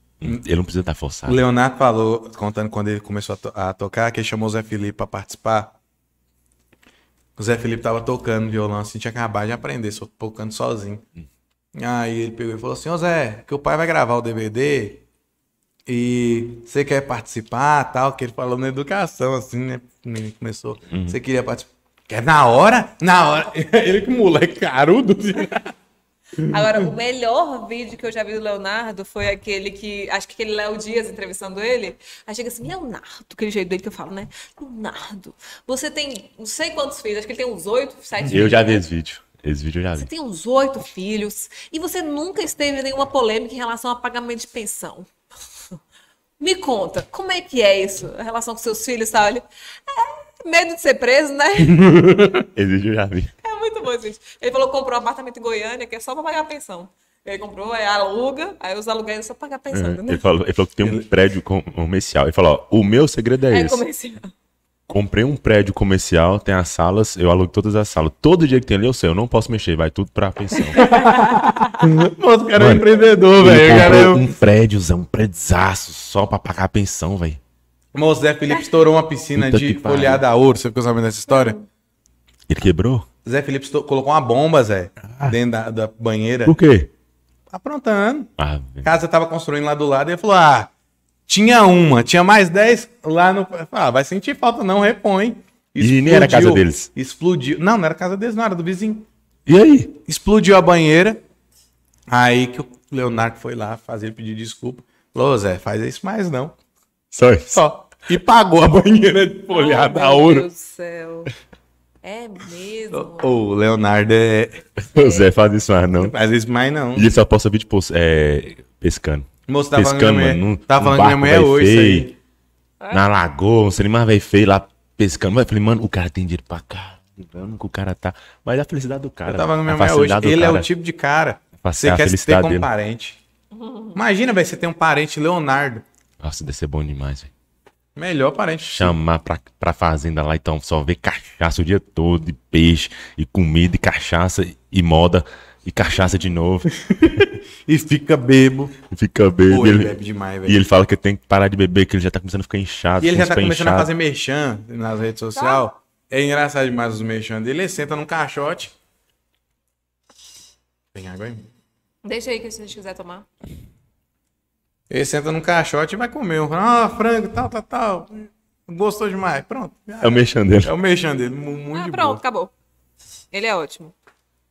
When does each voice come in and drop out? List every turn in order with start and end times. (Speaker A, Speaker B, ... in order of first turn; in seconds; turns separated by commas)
Speaker A: 0.2-1.4, Speaker B: 1.2-5.7, Speaker B: 7.4-11.0, Speaker B: 11.7-15.0, Speaker B: 15.9-25.7, Speaker A: 20.9-21.2, Speaker B: 26.4-26.7, Speaker C: 26.5-38.8, Speaker A: 38.3-40.1, Speaker C: 40.0-45.1, Speaker C: 46.4-51.8, Speaker B: 51.6-52.5, Speaker A: 52.5-53.3, Speaker C: 53.4-60.2, Speaker A: 59.7-63.8, Speaker C: 63.5-64.3, Speaker A: 64.9-70.9, Speaker C: 70.5-71.9, Speaker B: 70.8-74.3, Speaker A: 72.6-72.8, Speaker A: 73.4-77.4, Speaker B: 77.9-81.6, Speaker A: 79.3-80.2, Speaker C: 81.3-81.7, Speaker A: 82.5-83.1, Speaker B: 83.2-86.6, Speaker A: 85.1-85.3, Speaker A: 86.4-86.9, Speaker B: 87.5-88.3, Speaker A: 88.4-88.9, Speaker B: 88.8-90.7, Speaker B: 91.3-99.0, Speaker A: 95.8-96.9, Speaker A: 99.5-99.9, Speaker B: 100.0-101.2, Speaker B: 102.1-106.5, Speaker A: 107.1-107.6, Speaker B: 107.5-110.5, Speaker C: 109.5-111.3, Speaker C: 112.0-113.4, Speaker B: 112.9-114.7, Speaker A: 114.9-116.1, Speaker C: 115.0-115.3, Speaker B: 116.0-117.1, Speaker A: 116.9-122.1, Speaker B: 119.5-122.1, Speaker A: 122.9-130.7, Speaker B: 129.2-133.2, Speaker A: 131.6-132.7, Speaker C: 133.5-134.0, Speaker B: 133.9-135.8, Speaker A: 136.2-137.3, Speaker B: 137.9-138.9, Speaker A: 138.7-146.7, Speaker B: 146.7-148.8, Speaker A: 148.9-149.9, Speaker B: 149.5-150.6, Speaker A: 150.4-153.9, Speaker B: 153.0-158.7, Speaker C: 155.3-155.6, Speaker B: 160.9-161.5, Speaker C: 162.0-163.3, Speaker B: 164.9-172.2, Speaker A: 170.0-170.7, Speaker C: 171.7-172.5, Speaker C: 173.3-173.9